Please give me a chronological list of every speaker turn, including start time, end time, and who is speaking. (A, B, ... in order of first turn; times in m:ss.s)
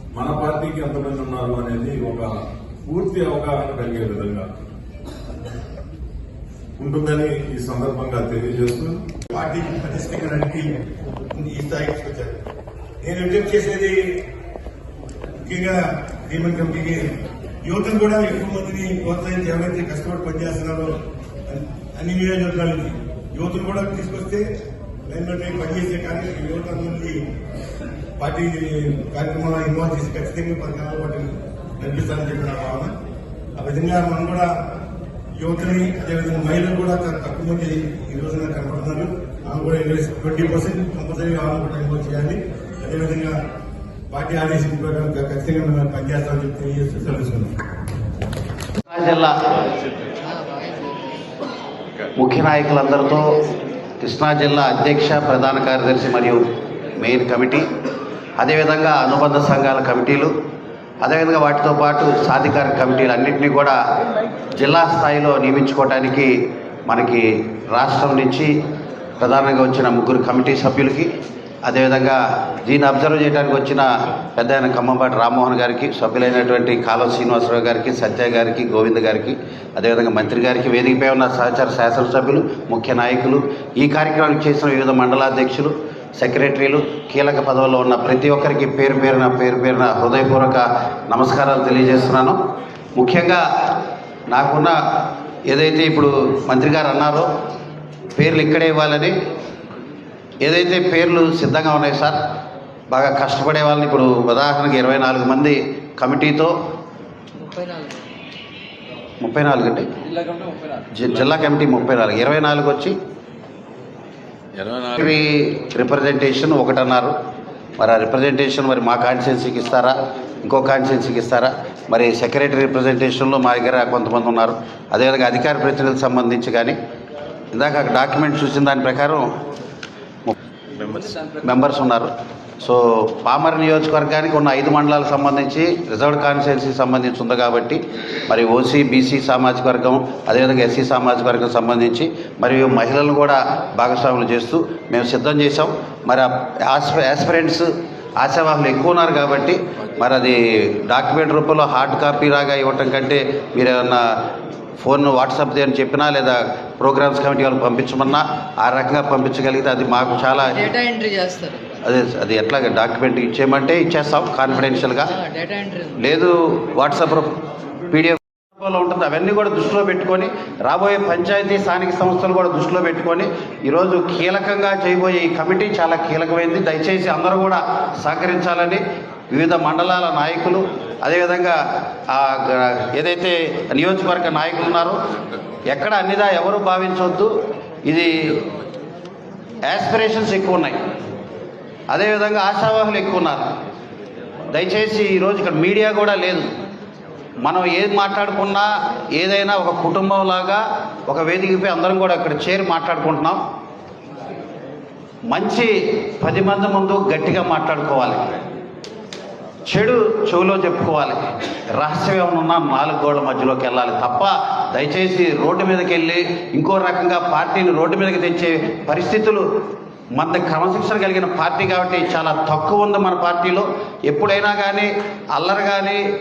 0:00.1-0:02.3 A
0:02.8-0:04.4 A
0:06.8-0:09.0 A
0:09.3-0:10.8 B
0:11.3-0:12.4 B
0:13.0-0:14.1 B
0:15.4-0:24.4 B
0:25.1-0:27.2 B
0:28.2-0:32.9 B
0:33.6-0:34.5 B
0:35.4-0:43.4 B
0:44.1-0:47.5 B
0:48.9-0:49.3 C
0:50.2-0:51.0 D
0:52.2-0:53.4 C
0:54.0-0:56.4 C
0:57.0-0:57.6 C
0:58.4-1:00.3 C
1:01.0-1:03.8 C
1:04.6-1:06.3 C
1:06.8-1:08.5 C
1:09.2-1:11.1 C
1:11.6-1:32.4 C
1:33.0-1:33.8 C
1:34.3-1:34.8 C
1:35.5-1:37.3 C
1:38.2-1:39.1 C
1:40.4-1:42.2 C
1:42.9-1:46.5 C
1:49.2-1:49.9 C
1:50.9-1:53.0 C
1:54.6-1:57.1 C
1:57.8-2:06.8 C
2:07.5-2:09.3 C
2:10.2-2:12.1 C
2:12.6-2:27.6 C
2:28.2-2:34.2 C
2:34.8-2:40.8 C
2:40.7-2:41.6 D
2:41.8-2:45.2 C
2:45.2-2:45.9 D
2:46.0-2:47.4 C
2:47.9-3:01.6 C
3:02.1-3:05.0 C
3:05.7-3:07.3 C
3:07.8-3:08.4 C
3:09.6-3:10.8 C
3:11.9-3:13.5 C
3:14.5-3:16.5 C
3:17.4-3:23.4 C
3:25.3-3:28.3 C
3:29.7-3:31.2 C
3:31.7-3:39.4 C
3:40.2-3:46.0 C